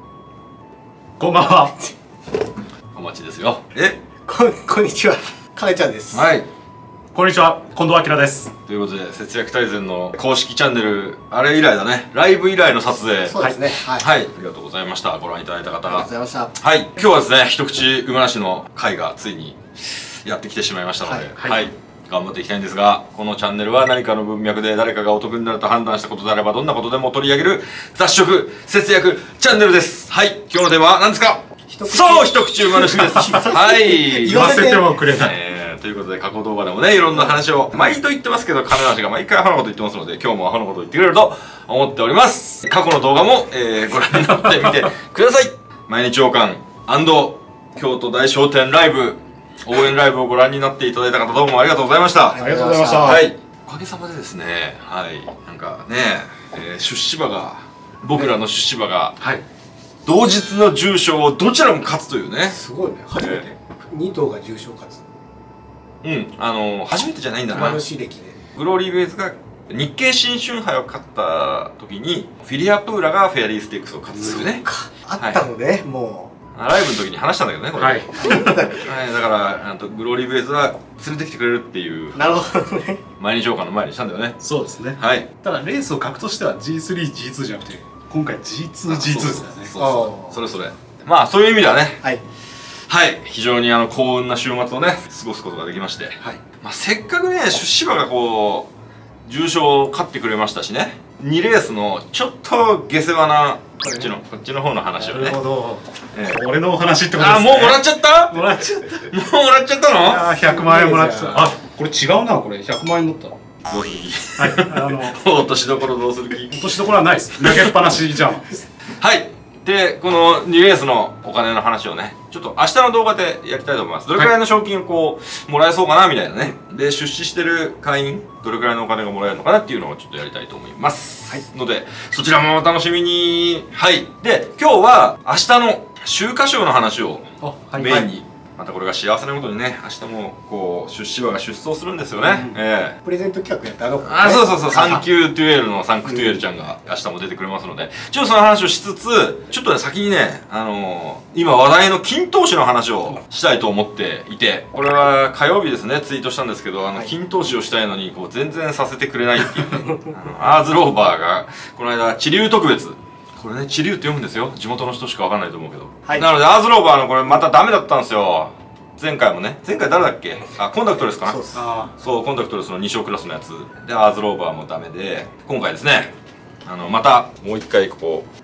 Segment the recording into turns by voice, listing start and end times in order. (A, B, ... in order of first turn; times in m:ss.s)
0:01.2-0:01.8 A
0:01.6-0:01.9 B
0:02.9-0:04.0 C
0:04.2-0:06.3 B
0:06.1-0:06.5 C
0:07.1-0:08.5 A
0:08.6-0:52.4 C
0:13.2-0:14.1 B
0:15.9-0:16.5 B
0:21.0-0:21.6 B
0:21.4-0:21.6 A
0:31.7-0:34.9 B
0:34.2-0:35.3 A
0:37.1-0:37.9 B
0:52.3-0:53.2 B
0:52.4-0:53.2 A
0:53.0-0:59.2 C
1:00.0-1:02.6 C
1:02.5-1:05.0 B
1:03.2-1:03.4 C
1:06.0-1:07.8 C
1:07.5-1:08.4 B
1:08.5-1:14.6 C
1:14.1-1:14.4 A
1:14.2-1:16.3 B
1:15.2-1:15.4 C
1:16.5-1:22.3 C
1:17.8-1:18.6 A
1:18.2-1:19.0 B
1:22.1-1:23.0 B
1:23.2-1:24.4 C
1:24.4-1:29.7 A
1:25.0-1:25.3 C
1:28.9-1:32.0 C
1:29.8-1:30.4 B
1:32.9-1:38.7 C
1:39.2-1:45.4 C
1:43.8-1:44.1 B
1:45.0-1:49.1 A
1:46.1-1:46.4 C
1:47.1-1:50.3 C
1:50.0-1:53.4 A
1:50.3-1:51.5 B
1:53.7-1:56.8 C
1:54.4-1:55.2 A
1:56.5-1:58.6 A
1:57.4-1:57.8 C
1:59.0-2:23.0 C
2:17.4-2:18.1 A
2:22.2-2:22.6 A
2:23.0-2:25.0 B
2:24.0-2:51.4 C
2:26.0-2:26.5 B
2:39.6-2:40.1 B
2:51.0-2:51.6 B
2:51.5-2:51.9 A
2:52.0-2:56.1 C
2:56.6-2:58.3 C